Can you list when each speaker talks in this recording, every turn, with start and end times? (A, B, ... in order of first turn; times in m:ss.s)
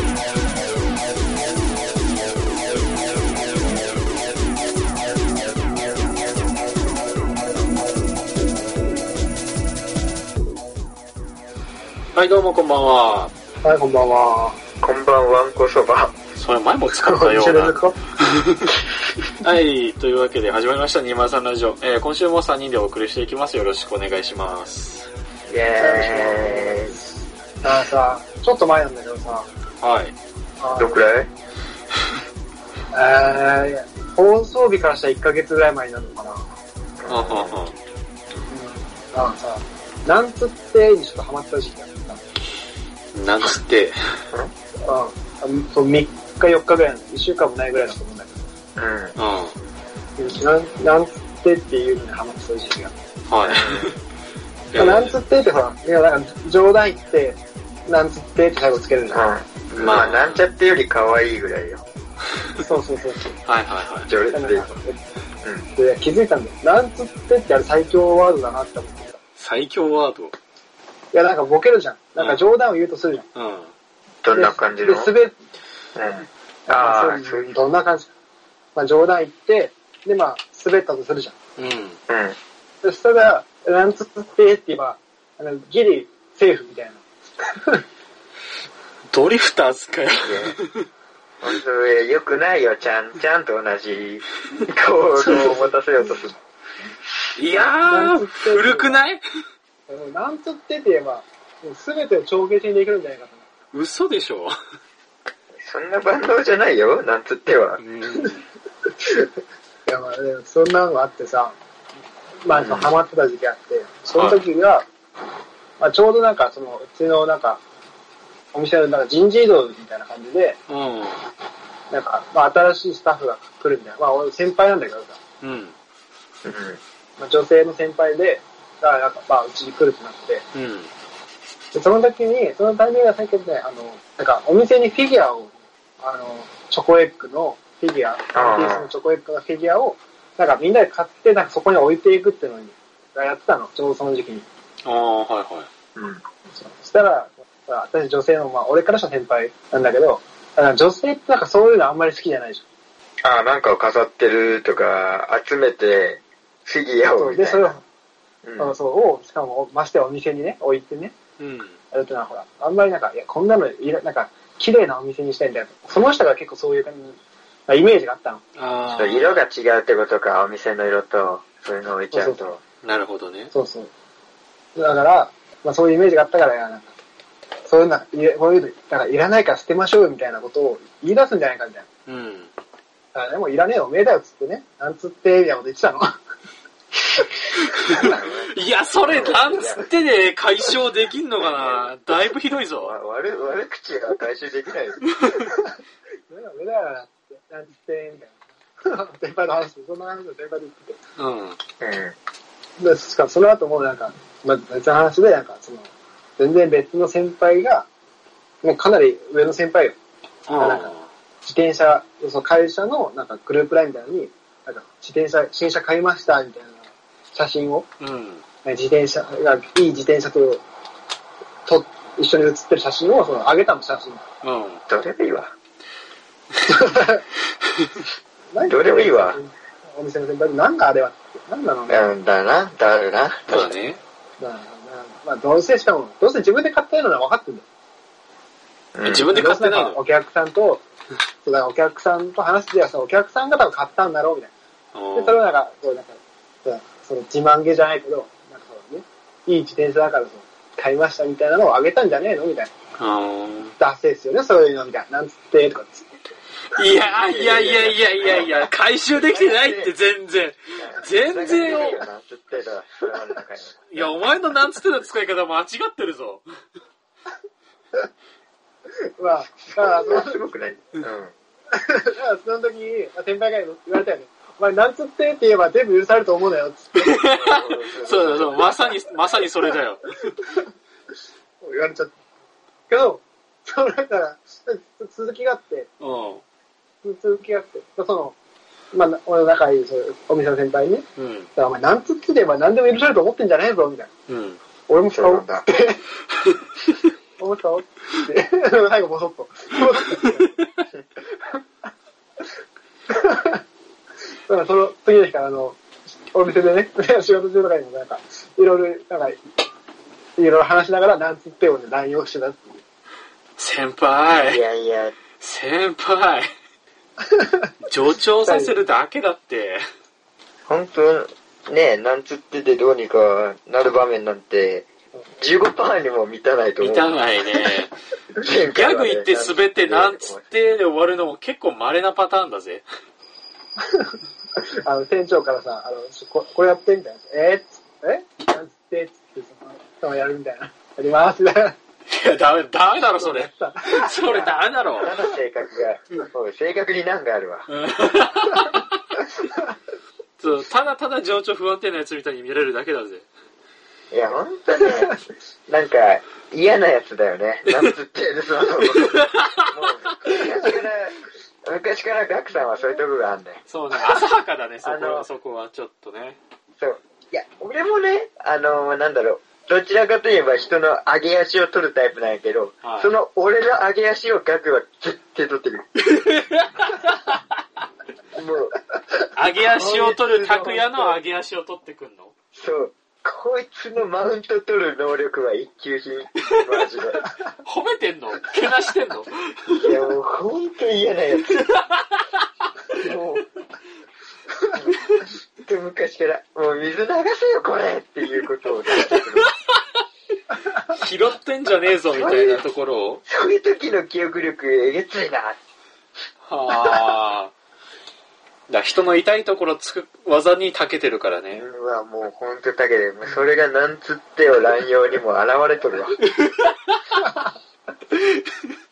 0:12.1-0:13.3 A
0:13.6-0:14.6 B
0:14.8-0:16.2 C
0:16.4-0:18.7 A
0:16.9-0:18.0 B
0:19.4-0:25.1 A
0:25.5-0:27.0 C
0:25.8-0:27.1 B
0:27.6-0:29.5 B
0:29.8-0:30.1 A
0:30.6-0:31.0 B
0:30.8-0:31.3 C
0:32.9-0:36.5 B
0:37.0-0:37.6 C
0:37.1-0:37.8 A
0:38.5-0:42.2 B
0:43.1-0:44.0 A
0:44.8-0:48.4 B
0:48.8-0:49.1 C
0:49.2-0:49.6 A
0:50.2-0:52.9 B
0:53.3-0:54.0 A
0:53.4-0:53.9 C
0:54.7-0:55.2 A
0:54.7-0:59.2 B
0:59.1-1:01.8 C
0:59.7-1:00.4 A
1:02.6-1:03.3 B
1:03.4-1:04.1 A
1:04.0-1:04.7 C
1:04.3-1:05.0 B
1:05.7-1:09.2 B
1:09.4-1:10.3 A
1:11.1-1:13.2 B
1:12.2-1:12.4 A
1:13.3-1:13.7 A
1:14.2-1:15.1 C
1:14.3-1:15.4 B
1:16.0-1:17.6 C
1:16.7-1:18.1 B
1:18.7-1:21.3 B
1:21.6-1:22.0 A
1:22.1-1:22.4 C
1:22.8-1:27.0 B
1:29.1-1:30.8 A
1:30.2-1:30.6 C
1:31.4-1:36.4 C
1:35.2-1:35.7 B
1:37.3-1:39.2 A
1:37.8-1:39.0 B
1:39.9-1:43.5 B
1:43.7-1:44.5 A
1:45.6-1:47.8 C
1:47.8-1:48.4 A
1:49.8-1:51.6 B
1:52.4-1:54.9 B
1:52.5-1:52.9 C
1:54.2-1:54.4 A
1:55.8-1:57.6 B
1:58.5-2:00.6 B
2:00.7-2:01.2 A
2:01.9-2:05.2 B
2:05.4-2:05.7 A
2:06.4-2:06.8 C
2:07.2-2:10.4 B
2:10.5-2:10.9 A
2:11.7-2:24.4 B
2:18.3-2:18.9 C
2:24.8-2:25.7 A
2:26.0-2:26.2 C
2:26.5-2:32.6 B
2:33.2-2:37.7 C
2:37.1-2:37.8 B
2:38.4-2:38.7 C
2:38.6-2:41.1 B
2:41.4-2:41.8 A
2:41.9-2:48.4 B
2:48.6-2:49.4 A
2:48.9-2:52.6 C
2:52.1-2:52.5 B
2:52.8-2:53.5 A
2:53.5-2:53.9 B
2:54.8-2:56.9 B
2:57.6-3:01.8 B
3:02.1-3:02.5 A
3:03.1-3:06.2 B
3:07.7-3:12.9 A
3:07.8-3:09.9 C
3:07.8-3:08.1 B
3:11.4-3:11.9 C
3:12.8-3:15.0 C
3:15.4-3:15.7 B
3:16.3-3:21.0 B
3:21.2-3:21.6 A
3:21.8-3:22.1 C
3:22.8-3:27.8 B
3:28.6-3:30.0 B
3:30.5-3:31.1 A
3:30.6-3:30.9 B
3:31.4-3:37.9 B
3:38.0-3:38.4 A
3:38.6-3:40.6 B
3:41.6-3:44.2 B
3:44.4-3:44.8 A
3:44.9-3:45.5 C
3:46.7-3:47.2 B
3:48.5-3:52.1 B
3:48.6-3:49.4 C
3:51.9-3:53.7 C
3:53.5-3:54.0 A
3:54.4-3:57.6 B
3:58.9-3:59.3 C
3:59.0-4:00.0 A
3:59.2-4:00.8 B
4:01.4-4:04.5 B
4:04.9-4:05.4 A
4:05.1-4:12.7 B
4:13.0-4:13.7 A
4:13.8-4:16.1 B
4:16.7-4:22.0 A
4:17.2-4:18.5 C
4:19.1-4:19.9 C
4:20.8-4:24.1 C
4:23.9-4:26.4 A
4:29.2-4:30.4 B
4:29.7-4:31.3 C
4:31.7-4:37.2 B
4:37.0-4:40.3 A
4:37.3-4:38.7 C
4:40.4-4:40.7 B
4:41.6-4:42.1 B
4:42.9-4:45.9 B
4:46.0-4:46.4 A
4:47.0-4:48.3 B
4:48.9-4:54.1 B
4:51.2-4:51.5 A
4:54.3-4:54.6 A
4:54.9-4:56.0 B
4:55.1-4:55.6 C
4:56.4-4:57.0 A
4:57.4-5:00.6 B
5:01.3-5:01.6 B
5:03.1-5:03.6 B
5:04.5-5:05.8 B
5:06.3-5:09.4 B
5:10.4-5:12.8 B
5:13.6-5:14.6 A
5:14.4-5:15.1 C
5:15.4-5:16.5 A
5:17.2-5:17.7 B
5:17.8-5:19.8 A
5:18.4-5:18.8 B
5:20.7-5:27.2 C
5:26.8-5:27.9 A
5:28.4-5:30.4 C
5:28.7-5:32.8 A
5:33.8-5:41.7 B
5:42.1-5:45.1 A
5:43.2-5:44.2 B
5:44.2-5:47.7 C
5:47.7-5:48.9 A
5:50.4-5:53.2 A
5:54.1-6:03.6 C
5:57.7-5:57.9 A
5:58.8-5:59.7 A
6:03.7-6:06.4 A
6:04.8-6:05.3 C
6:06.8-6:15.9 C
6:12.8-6:13.1 A
6:16.0-6:17.4 A
6:18.3-6:18.8 C
6:19.4-6:22.3 A
6:19.7-6:21.2 C
6:22.5-6:27.3 C
6:27.6-6:30.0 A
6:29.7-6:31.7 C
6:31.6-6:32.4 A
6:33.0-6:33.4 C
6:35.6-6:39.5 C
6:39.0-6:39.5 A
6:40.9-6:43.2 A
6:42.2-6:42.6 C
6:43.2-6:45.6 C
6:46.4-6:47.5 A
6:48.7-6:51.6 A
6:51.5-6:56.2 C
6:56.3-6:57.2 A
6:58.2-6:58.4 A